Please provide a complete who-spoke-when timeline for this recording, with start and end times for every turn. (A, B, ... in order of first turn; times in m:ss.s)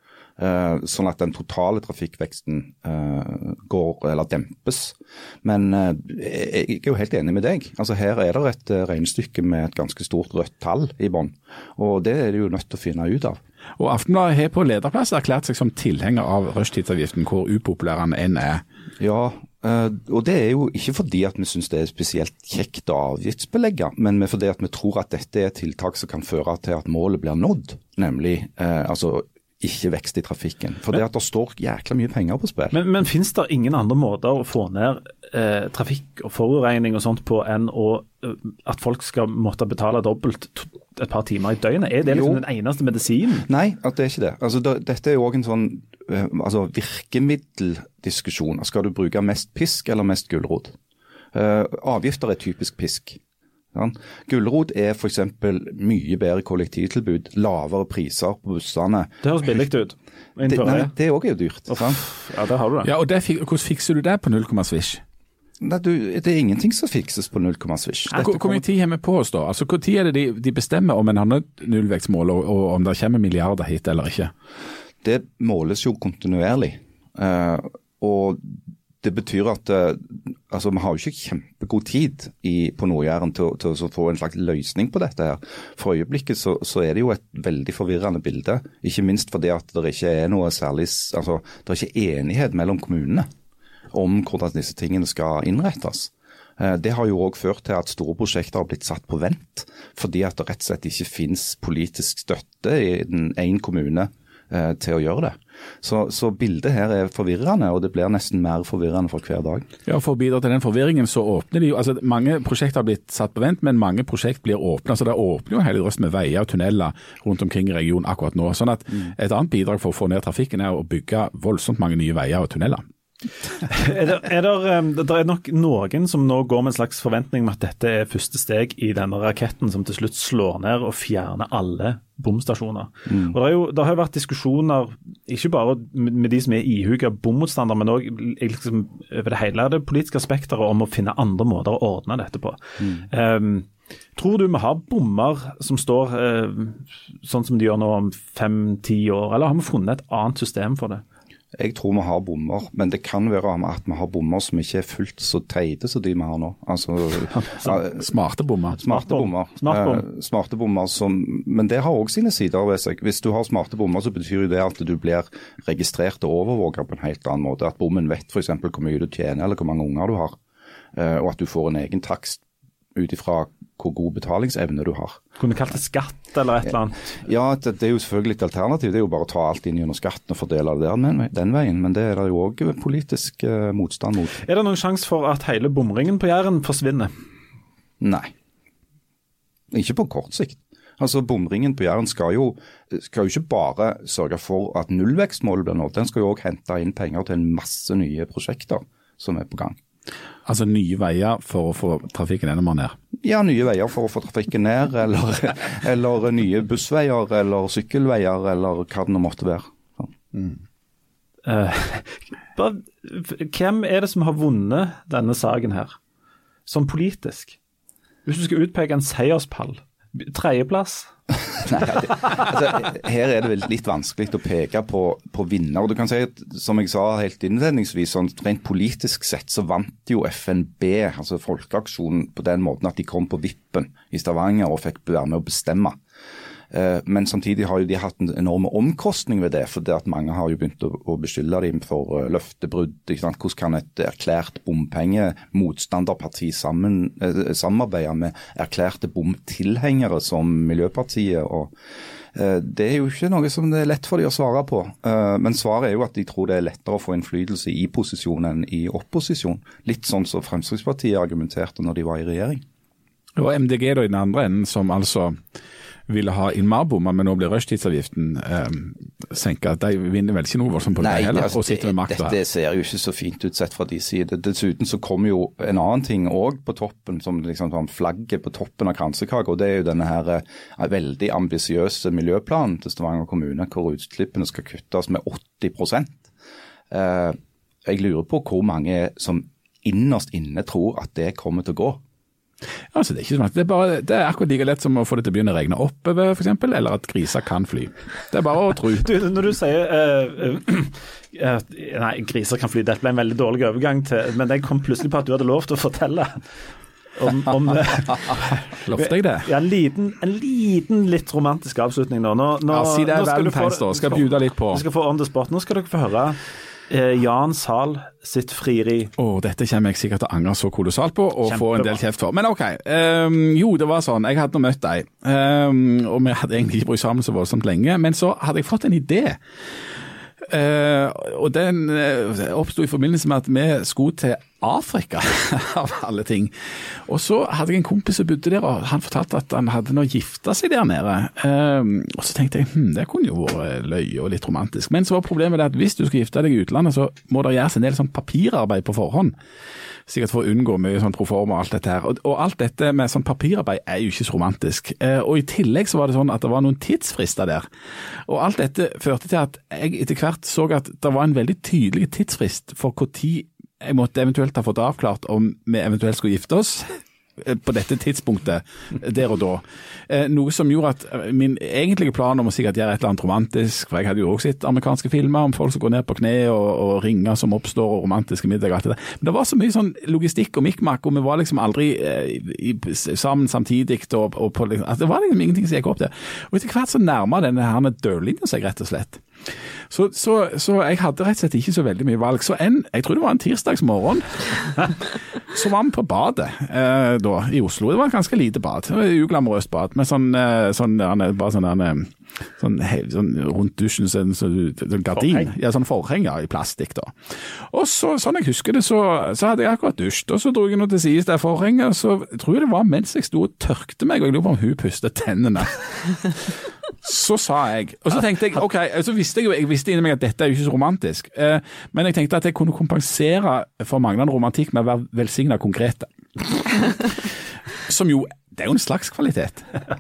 0:00.4-0:13.4 A
0:13.8-0:18.6 B
0:19.0-0:32.8 A
0:32.7-0:43.5 C
0:42.1-0:42.4 A
0:43.5-0:50.8 A
0:51.3-0:53.2 A
0:53.7-0:59.1 A
0:59.2-1:00.9 C
1:00.5-1:02.0 A
1:01.7-1:02.9 C
1:02.8-1:05.0 B
1:05.6-1:08.3 A
1:08.1-1:08.6 C
1:08.2-1:14.3 B
1:15.0-1:33.3 A
1:33.9-1:49.7 A
1:49.9-2:02.8 B
2:03.6-2:31.0 C
2:13.1-2:13.4 A
2:22.8-2:23.0 A
2:31.6-2:38.0 A
2:37.8-2:38.8 B
2:38.8-2:50.4 A
2:38.8-2:40.0 C
2:51.0-2:52.4 A
2:53.0-2:55.2 A
2:55.4-2:57.1 C
2:57.2-3:04.4 A
3:04.4-3:07.1 C
3:08.0-3:08.3 A
3:09.7-3:19.8 A
3:20.5-3:23.0 B
3:23.2-3:30.1 A
3:31.4-3:36.0 C
3:36.7-3:37.6 C
3:38.2-3:41.1 C
3:41.6-3:56.0 A
3:56.7-4:11.7 A
4:12.4-4:22.6 A
4:23.4-4:25.4 B
4:26.1-4:32.4 B
4:31.0-4:46.3 A
4:46.9-4:52.0 A
4:52.9-4:59.1 B
4:59.0-5:06.4 C
5:07.2-5:16.4 C
5:08.8-5:09.5 B
5:12.7-5:14.8 B
5:16.9-5:19.1 C
5:19.2-5:49.3 B
5:21.5-5:22.0 C
5:50.1-6:29.2 B
6:29.9-6:56.5 B
6:45.1-6:45.5 C
6:57.0-7:09.7 B